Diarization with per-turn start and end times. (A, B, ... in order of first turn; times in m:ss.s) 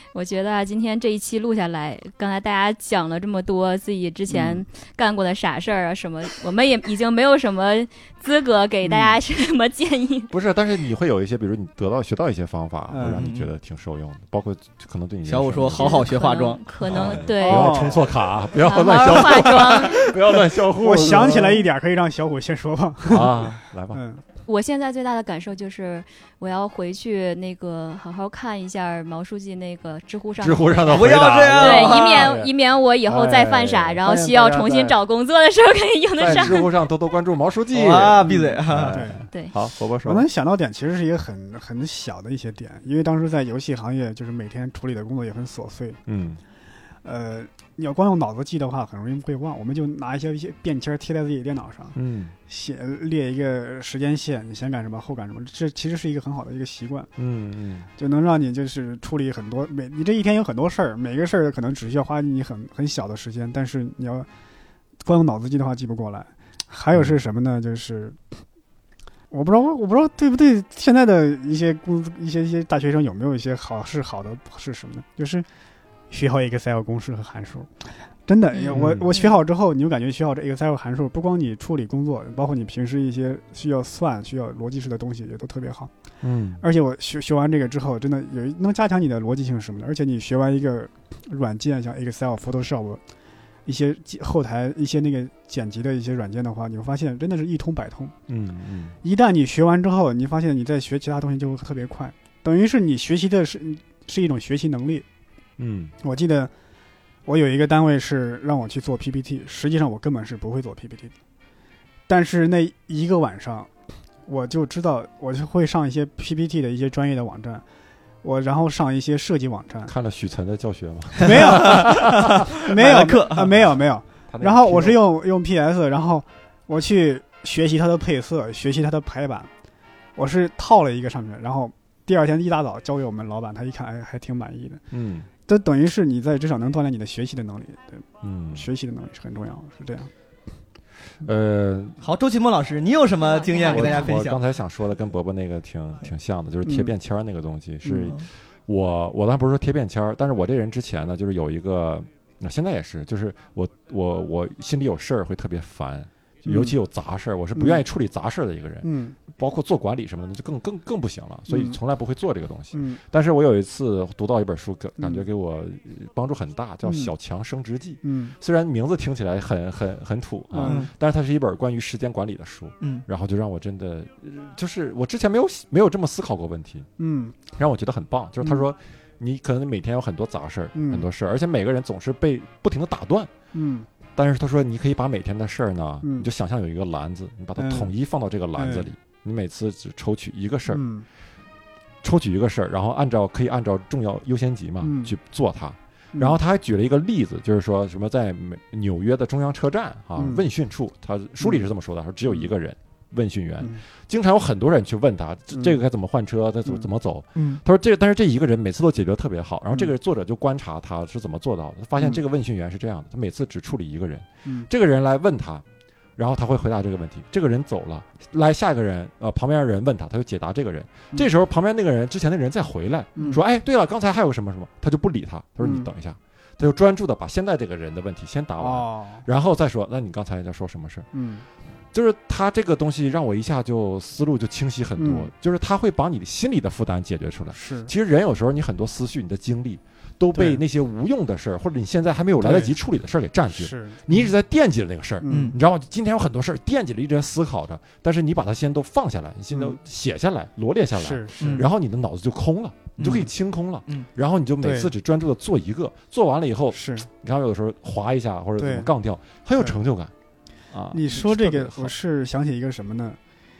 0:00.1-0:10.3 A
0:04.3-0:04.6 B
0:08.8-0:09.2 B
0:10.3-0:16.1 C
0:12.9-0:13.2 B
0:13.0-0:13.5 D
0:15.2-0:17.1 D
0:15.7-0:17.9 A
0:16.8-0:21.7 C
0:17.4-0:18.0 B
0:18.6-0:20.1 A
0:20.7-0:24.2 B
0:23.1-0:24.0 C
0:24.4-0:36.7 A
0:30.4-0:32.5 C
0:30.9-0:32.3 D
0:33.0-0:35.0 C
0:36.2-0:40.2 C
0:37.7-0:39.1 D
0:38.2-0:39.2 B
0:40.0-0:46.0 B
0:46.1-0:46.4 C
0:47.0-0:57.1 B
0:51.9-0:52.3 C
0:57.2-0:57.9 C
0:58.0-1:04.3 B
1:05.0-1:08.4 B
1:06.9-1:07.2 C
1:09.3-1:15.4 B
1:16.1-1:25.9 B
1:18.5-1:19.2 A
1:18.7-1:19.1 C
1:26.2-1:26.6 C
1:26.6-1:33.0 B
1:33.6-1:38.1 B
1:38.3-1:38.9 C
1:39.0-1:45.0 B
1:45.6-1:45.9 C
1:46.0-1:46.5 B
1:47.2-1:51.1 B
1:52.1-1:53.7 B
1:54.2-1:57.6 B
1:58.2-1:59.9 B
1:59.9-2:02.5 C
2:01.2-2:03.6 D
2:01.2-2:09.5 B
2:04.3-2:05.0 C
2:10.2-2:14.8 B
2:14.9-2:15.3 C
2:15.4-2:20.1 B
2:18.2-2:18.7 C
2:21.2-2:22.0 C
2:22.0-2:24.4 D
2:23.2-2:24.1 A
2:23.6-2:56.9 C
2:26.6-2:26.9 B
2:27.9-2:28.2 D
2:36.4-2:36.8 B
2:37.6-2:37.8 B
2:38.8-2:39.2 B
2:41.5-2:41.8 B
2:42.7-2:43.0 B
2:45.0-2:45.2 B
2:46.8-2:47.1 B
2:48.0-2:48.3 B
2:50.5-2:50.9 B
2:50.6-2:50.9 D
2:52.8-2:53.0 D
2:57.0-2:57.4 B
2:57.6-3:03.3 C
3:00.7-3:01.0 B
3:03.5-3:03.9 B
3:04.1-3:10.8 C
3:06.0-3:06.3 B
3:07.6-3:07.9 B
3:08.5-3:08.9 B
3:10.7-3:11.0 B
3:12.0-3:35.6 C
3:14.8-3:15.1 B
3:16.1-3:16.4 B
3:20.2-3:20.4 B
3:21.4-3:21.7 B
3:27.4-3:27.6 D
3:36.2-3:51.1 C
3:43.2-3:43.4 B
3:45.6-3:45.9 B
3:48.6-3:49.2 B
3:51.1-3:51.4 B
3:51.9-4:20.1 C
3:55.0-3:55.3 B
3:57.5-3:57.9 B
4:00.3-4:00.6 B
4:02.4-4:02.8 B
4:03.5-4:04.0 B
4:05.2-4:05.5 B
4:05.3-4:05.6 D
4:09.5-4:09.8 B
4:11.0-4:11.6 B
4:11.4-4:11.7 D
4:13.0-4:13.3 D
4:14.6-4:14.9 B
4:16.7-4:17.1 B
4:18.6-4:18.9 B
4:20.7-4:22.0 C
4:20.9-4:23.2 B